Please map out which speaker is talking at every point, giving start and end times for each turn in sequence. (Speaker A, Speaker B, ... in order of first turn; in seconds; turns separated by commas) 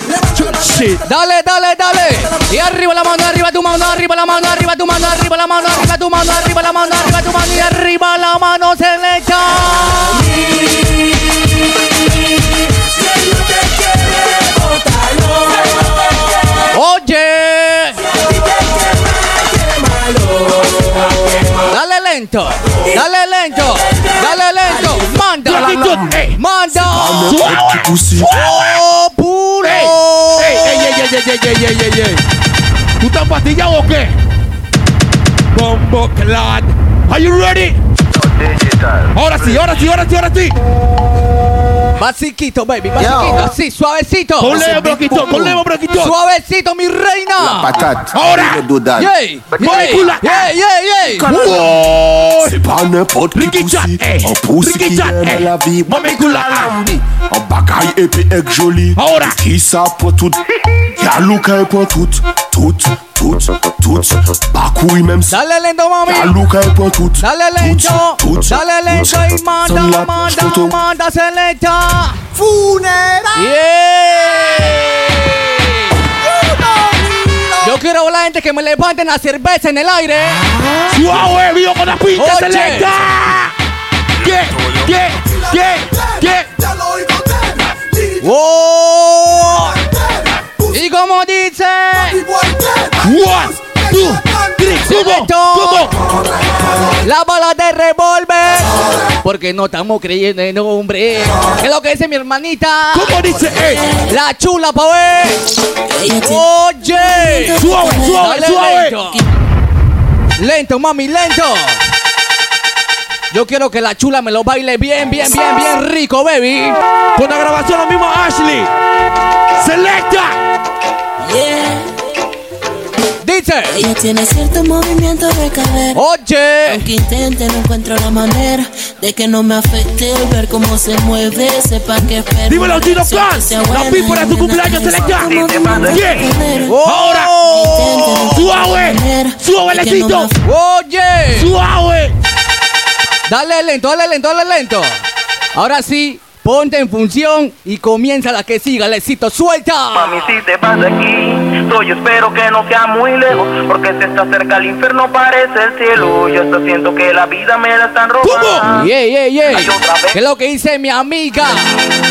Speaker A: 0.4-1.0, Speaker B: 1.0-10.2, Speaker B: 16.7-18.0, Speaker B: 21.7-27.4, Speaker A: 25.4-26.4, Speaker C: 26.8-28.3, Speaker A: 27.2-28.7, Speaker B: 28.3-30.9, Speaker A: 29.6-32.2, Speaker A: 33.0-34.1, Speaker A: 35.5-37.8, Speaker D: 38.1-39.6, Speaker A: 39.1-40.6, Speaker B: 42.0-44.8, Speaker A: 44.4-46.1, Speaker C: 44.8-45.5, Speaker B: 46.0-47.8, Speaker C: 47.4-49.1, Speaker A: 48.1-48.6, Speaker B: 49.0-51.3, Speaker A: 49.6-50.5, Speaker C: 51.2-51.6, Speaker A: 51.2-52.5, Speaker C: 52.4-60.4, Speaker A: 53.3-56.8, Speaker A: 59.0-59.4, Speaker C: 61.0-65.4, Speaker B: 65.3-66.3, Speaker C: 66.1-70.8, Speaker B: 67.2-72.2, Speaker B: 73.3-76.0, Speaker B: 77.6-80.4, Speaker A: 80.8-83.5, Speaker B: 82.2-82.9, Speaker A: 84.2-86.5, Speaker B: 88.2-89.8, Speaker B: 90.7-92.2, Speaker A: 93.0-95.9, Speaker B: 94.8-95.9, Speaker B: 97.0-103.2, Speaker A: 102.9-103.8, Speaker B: 104.0-105.4, Speaker E: 105.9-106.5, Speaker B: 106.2-109.2, Speaker E: 107.0-108.4, Speaker A: 107.6-109.0, Speaker B: 110.4-111.8, Speaker B: 113.3-116.8, Speaker A: 117.2-118.7, Speaker A: 119.6-120.4, Speaker E: 121.2-121.9, Speaker B: 123.2-123.8, Speaker E: 123.7-126.0, Speaker B: 125.9-126.9, Speaker E: 126.7-136.8, Speaker A: 132.5-136.3, Speaker D: 135.0-136.1, Speaker B: 136.7-138.2, Speaker A: 136.8-137.3, Speaker E: 137.4-140.4, Speaker A: 138.1-140.3, Speaker B: 140.4-141.5, Speaker A: 141.3-142.1, Speaker B: 143.3-145.0, Speaker B: 145.5-150.3, Speaker D: 149.9-158.9, Speaker A: 158.2-158.6, Speaker B: 158.8-161.7, Speaker D: 159.4-160.2